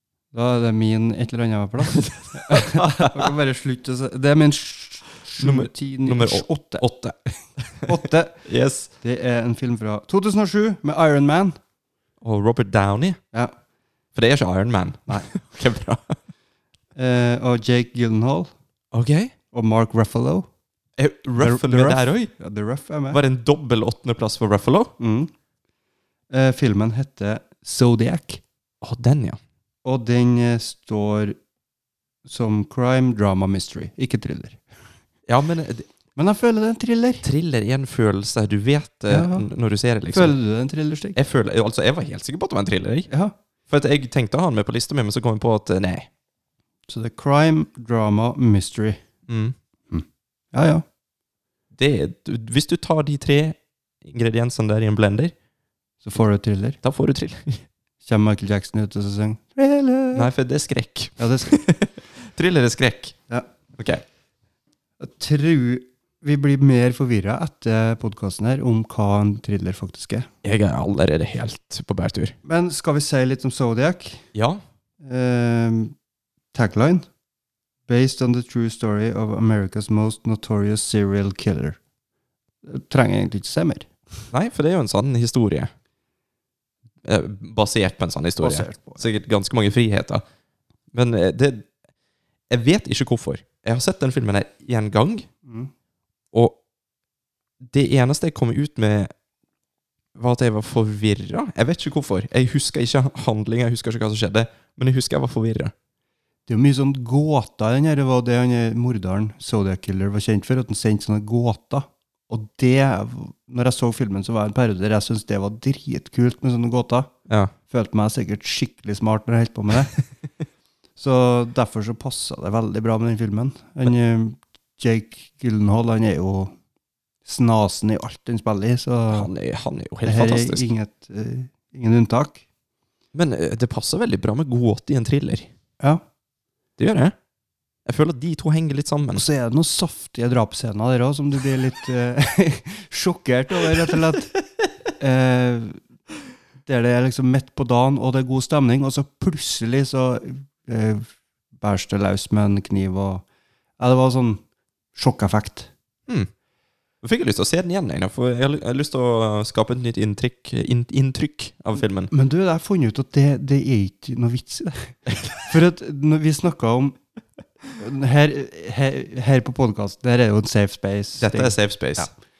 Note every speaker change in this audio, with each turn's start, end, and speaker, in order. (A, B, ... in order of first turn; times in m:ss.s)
0:00.3-0:06.8 A
0:01.9-0:03.3 B
0:05.4-0:07.9 B
0:07.8-0:08.4 A
0:08.4-0:08.9 B
0:09.0-0:11.6 A
0:12.2-0:13.2 B
0:14.1-0:16.2 B
0:17.0-0:18.5 A
0:18.9-0:19.3 B
0:19.5-0:20.5 A
0:21.0-0:22.3 B
0:21.4-0:23.2 A
0:23.1-0:24.9 B
0:25.0-0:25.3 A
0:26.3-0:28.4 A
0:28.8-0:29.4 B
0:29.8-0:31.4 A
0:32.2-0:34.6 A
0:35.3-0:35.9 B
0:36.2-0:37.2 A
0:37.2-0:40.4 B
0:39.1-0:39.4 A
0:40.1-0:41.2 A
0:41.2-0:43.1 B
0:43.7-0:46.1 B
0:46.9-0:49.0 A
0:49.3-0:49.6 B
0:49.9-0:50.8 A
0:51.7-0:55.3 B
0:56.0-0:56.8 A
0:56.8-0:57.6 B
0:58.0-1:00.3 A
1:00.1-1:03.2 B
1:01.2-1:01.6 A
1:03.8-1:04.0 B
1:05.0-1:10.3 A
1:10.4-1:12.3 B
1:12.4-1:14.2 A
1:14.3-1:14.6 B
1:15.0-1:15.9 A
1:16.5-1:17.0 A
1:17.9-1:21.8 A
1:22.6-1:23.9 A
1:24.3-1:25.7 B
1:27.0-1:30.2 B
1:28.4-1:29.0 A
1:30.9-1:31.7 B
1:32.5-1:35.3 B
1:35.4-1:35.7 A
1:36.3-1:36.6 B
1:37.6-1:39.1 B
1:40.2-1:45.7 B
1:46.5-1:57.1 A
1:57.7-1:59.9 A
2:01.0-2:06.5 A
2:07.2-2:09.3 A
2:09.1-2:10.7 B
2:10.0-2:12.4 A
2:13.1-2:15.5 B
2:16.8-2:17.1 B
2:17.8-2:19.2 B
2:19.1-2:24.3 A
2:25.0-2:25.8 A
2:26.6-2:31.1 A
2:31.6-2:33.2 A
2:33.8-2:34.4 A
2:34.9-2:35.7 A
2:37.0-2:42.1 B
2:42.1-2:47.0 A
2:47.8-2:52.1 A
2:51.2-2:52.1 B